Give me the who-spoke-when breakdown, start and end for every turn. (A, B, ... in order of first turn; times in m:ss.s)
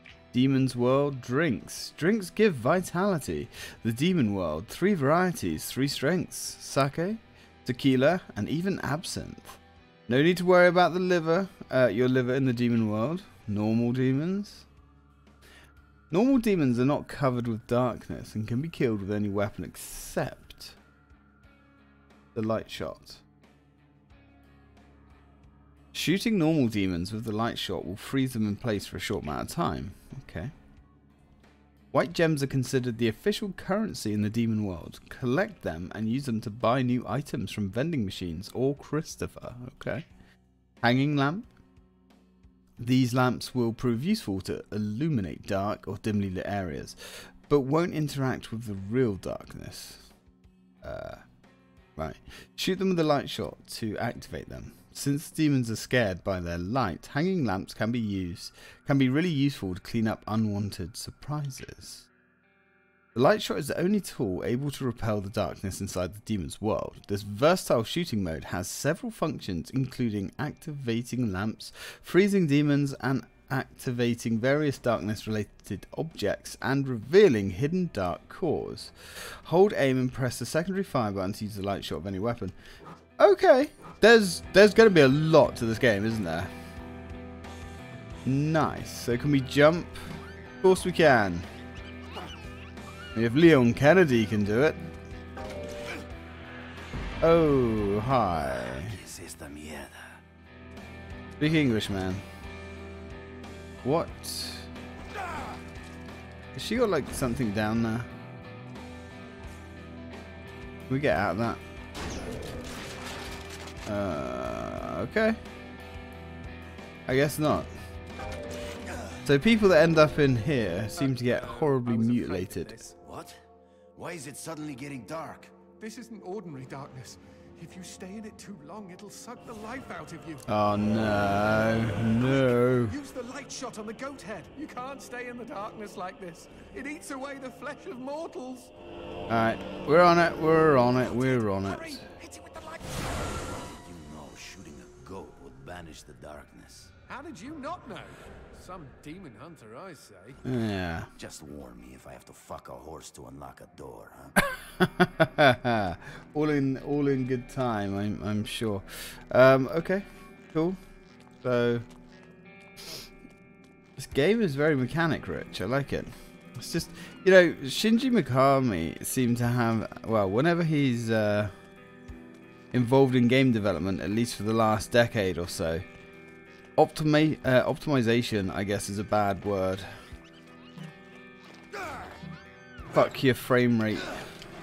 0:00.3-0:14.7 A
0:16.1-0:20.8 A
0:22.3-0:23.2 A
0:25.9-0:30.5 A
0:31.9-0:40.0 A
0:40.8-0:41.5 A
0:42.8-0:50.1 A
0:50.8-0:51.2 A
0:52.0-1:02.1 A
1:03.1-1:22.6 A
1:23.2-1:26.5 A
1:28.2-1:31.5 A
1:33.1-1:34.8 A
1:37.2-1:39.0 A
1:38.3-1:40.2 B
1:41.4-1:42.2 A
1:43.8-1:44.7 A
1:46.5-1:48.1 A
1:50.9-1:51.6 A
1:53.8-1:55.4 A
1:57.1-1:57.7 A
1:59.2-2:02.8 A
2:00.9-2:02.9 C
2:03.0-2:03.4 B
2:03.9-2:05.6 B
2:05.8-2:10.4 C
2:10.5-2:13.0 A
2:12.2-2:18.7 C
2:19.3-2:22.0 A
2:20.9-2:23.2 C
2:23.4-2:26.9 B
2:27.1-2:30.4 C
2:30.4-2:31.1 A
2:31.2-2:34.4 B
2:34.4-2:40.8 A
2:41.4-2:41.8 A
2:44.0-2:51.5 A
2:52.7-2:55.8 A
2:56.8-2:59.9 A
3:02.9-3:04.2 A